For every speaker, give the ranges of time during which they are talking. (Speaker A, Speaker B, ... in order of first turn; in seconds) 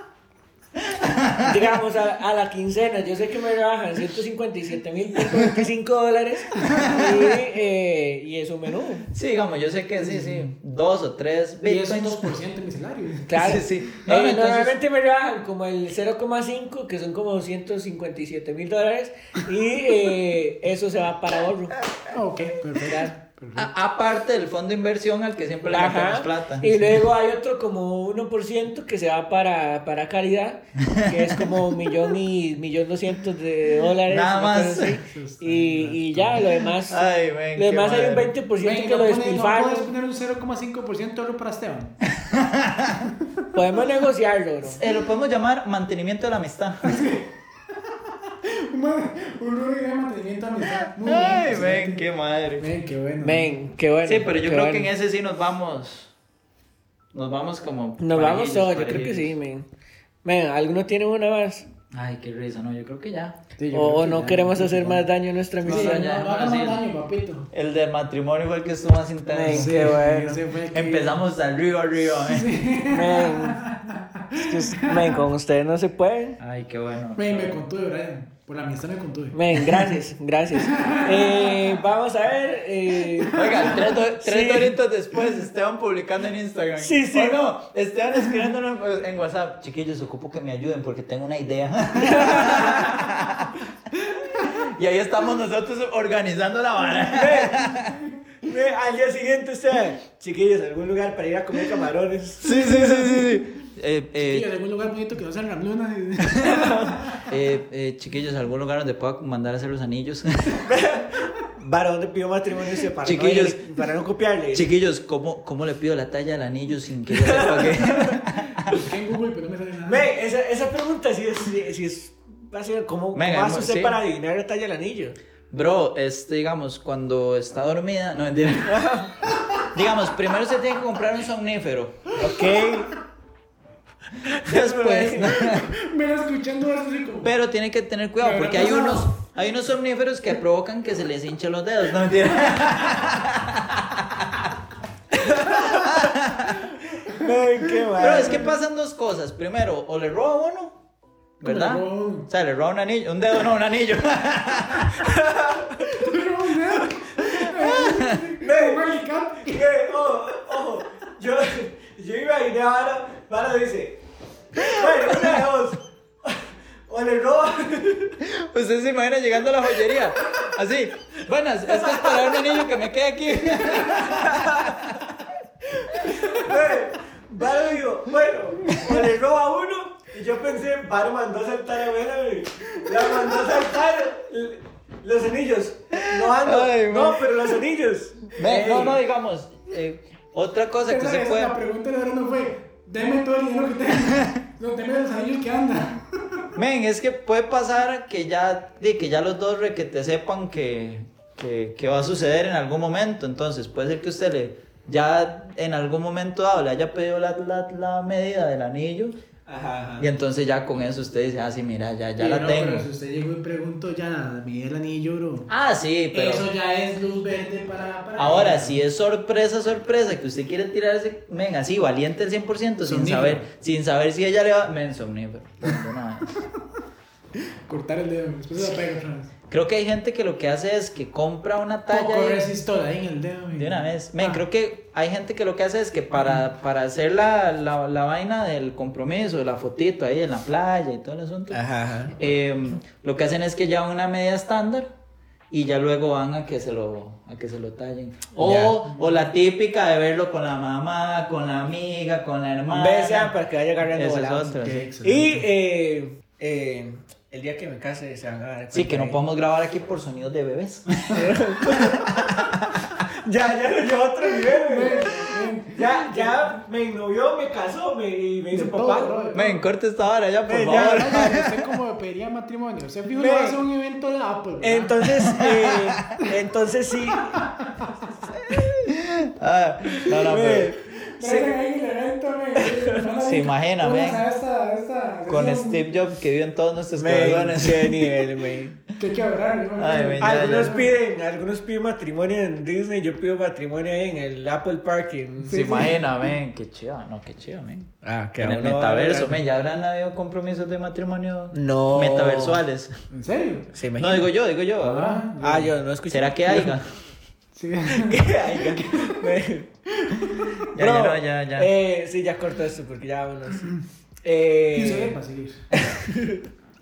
Speaker A: 0.8-1.7, 6.7-7.4, 9.1-12.3, 13.4-14.8, 23.6-27.0, 30.8-31.6, 34.0-35.0, 36.8-38.3, 42.1-43.1, 44.6-47.2, 51.0-52.7, 54.0-56.1, 57.1-59.4, 61.9-63.4, 65.7-66.8, 67.5-70.0, 70.7-72.5, 76.4-77.6, 83.3-93.7, 94.4-98.1, 102.4-104.5, 107.3-110.7, 113.0-113.7, 114.5-118.8, 123.1-124.0, 125.5-128.8, 129.7-132.2, 134.4-135.7, 137.2-144.5, 145.1-146.7, 148.0-150.8, 151.4-155.1, 157.2-158.3, 164.6-165.4, 168.2-175.3, 175.9-176.2, 178.7-179.0, 185.9-187.3, 188.4-191.6, 196.6-209.1, 210.0-212.9, 215.5-216.5, 218.2-226.4, 229.5-232.5, 233.5-241.6, 242.1-244.9, 245.5-253.4, 253.9-254.9, 258.7-263.0, 269.3-271.7, 275.3-276.2, 278.5-280.7, 283.2-284.2, 285.3-288.2, 289.8-290.8, 295.5-302.9, 304.0-305.2, 306.1-306.9, 308.5-308.9, 310.3-311.7
Speaker B: 1.4-9.1, 13.3-21.9, 22.8-23.1, 25.7-39.9, 43.5-44.8, 53.2-54.9, 58.0-59.7, 60.2-61.7, 63.7-66.0, 69.3-70.4, 72.9-73.7, 74.3-76.4, 79.3-84.8, 86.8-87.4, 92.0-93.0, 97.1-97.6, 98.4-102.6, 106.4-107.2, 110.7-114.7, 117.1-118.2, 119.9-125.2, 128.6-129.1, 132.2-132.9, 134.2-135.6, 145.2-146.1, 147.1-148.5, 155.0-155.9, 158.4-158.9, 159.4-164.0, 164.5-168.2, 171.7-172.5, 173.9-174.7, 175.8-189.0, 209.5-210.1, 241.5-242.1, 248.4-248.8, 252.7-259.2, 261.1-262.1, 263.1-269.1, 270.5-271.4, 273.1-273.6, 274.6-277.4, 279.9-281.6, 282.6-283.0, 287.0-288.8, 290.2-295.6, 298.0-299.4, 301.5-302.6, 303.7-304.3, 305.4-306.8, 307.9-309.7, 310.8-313.7, 314.2-315.2, 315.9-316.4
Speaker C: 10.0-10.5, 11.6-13.5, 22.1-23.7, 35.1-36.7, 38.6-42.0, 46.9-47.3, 48.3-52.1, 52.6-53.5, 63.6-65.1, 65.6-67.5, 69.5-71.2, 72.2-75.2, 77.2-79.9, 80.6-81.7, 83.1-83.6, 102.5-103.5, 104.2-107.3, 118.7-120.1, 129.4-129.7, 132.3-132.7, 135.2-137.3, 138.2-139.1, 147.1-148.5, 151.4-152.3, 155.8-159.8, 183.0-183.3, 190.9-196.5, 212.2-215.5, 216.1-218.8, 222.8-223.4, 227.7-229.3, 231.9-234.4, 254.6-255.4, 264.4-266.6, 268.5-269.6, 270.7-275.0, 277.3-278.0, 281.1-285.8, 289.0-290.9, 295.4-296.1, 303.1-303.7, 304.8-305.7, 307.6-308.3, 310.0-310.7, 314.7-315.6